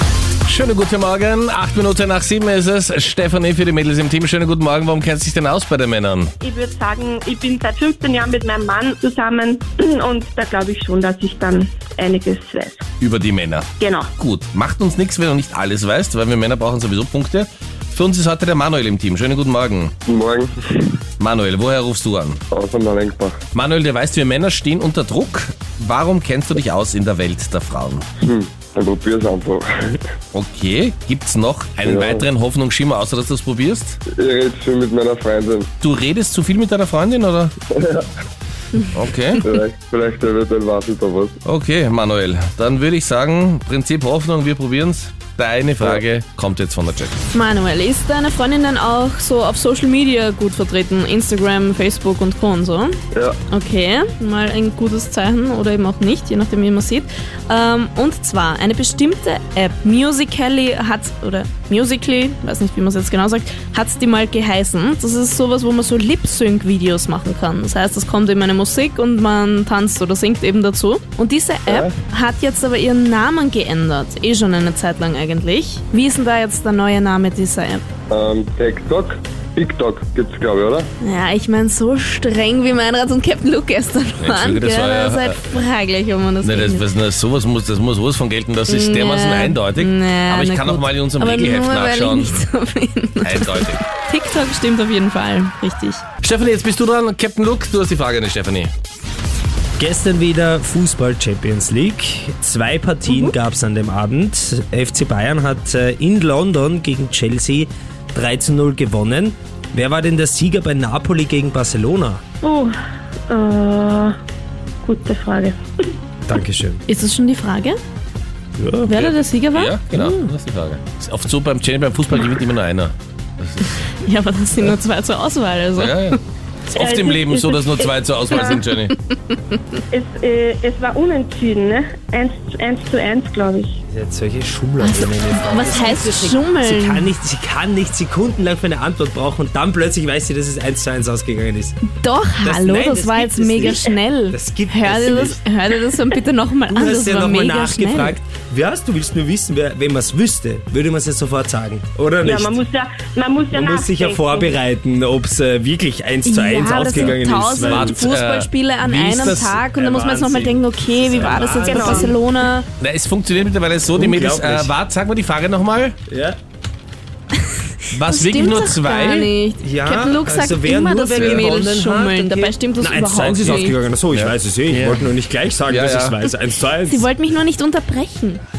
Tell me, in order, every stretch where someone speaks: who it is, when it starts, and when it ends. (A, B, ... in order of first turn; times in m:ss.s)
0:00.4-0:06.3 A
0:06.4-0:12.8 B
0:13.0-0:19.9 A
0:13.8-0:14.1 B
0:20.0-0:20.9 C
0:21.2-0:22.4 A
0:22.5-0:23.4 C
0:23.5-0:28.0 A
0:28.2-0:30.0 C
0:30.3-0:34.0 A
0:31.8-0:32.2 C
0:34.1-0:35.7 C
0:35.8-0:37.5 A
0:37.7-0:38.1 C
0:38.9-0:39.4 A
0:39.4-0:41.4 C
0:41.4-0:47.2 A
0:47.3-0:53.0 D
0:53.5-1:17.8 D
1:11.7-1:11.9 C
1:18.1-1:20.9 C
1:21.0-1:26.9 D
1:24.2-1:25.4 A
1:26.4-1:32.4 A
1:28.7-1:36.0 D
1:33.2-1:33.8 A
1:36.2-1:38.7 A
1:39.8-1:52.2 E
1:52.4-1:52.7 B
1:53.3-1:54.1 B
1:54.8-1:55.6 B
1:56.2-1:56.8 E
1:56.9-1:57.8 D
1:58.6-1:59.0 E
1:58.8-2:00.2 D
1:59.0-2:03.6 A
2:04.0-2:06.2 D
2:05.8-2:06.2 A
2:06.7-2:08.7 B
2:06.7-2:09.0 A
2:09.9-2:13.8 B
2:13.9-2:21.8 E
2:14.8-2:17.1 D
2:21.8-2:28.2 D
2:22.4-2:25.4 E
2:26.7-2:32.6 E
2:32.2-2:34.5 B
2:33.5-2:38.0 E
2:36.2-2:42.6 D
2:37.6-2:39.6 A
2:39.1-2:42.1 E
2:41.6-2:42.1 B
2:42.8-2:46.0 A
2:43.9-2:44.7 E
2:46.1-2:46.4 E
2:47.9-2:49.3 A
2:48.0-2:53.8 D
2:49.6-2:57.1 E
2:51.1-2:51.5 A
2:54.1-2:55.1 A
2:55.7-2:56.2 A
2:56.8-2:58.4 D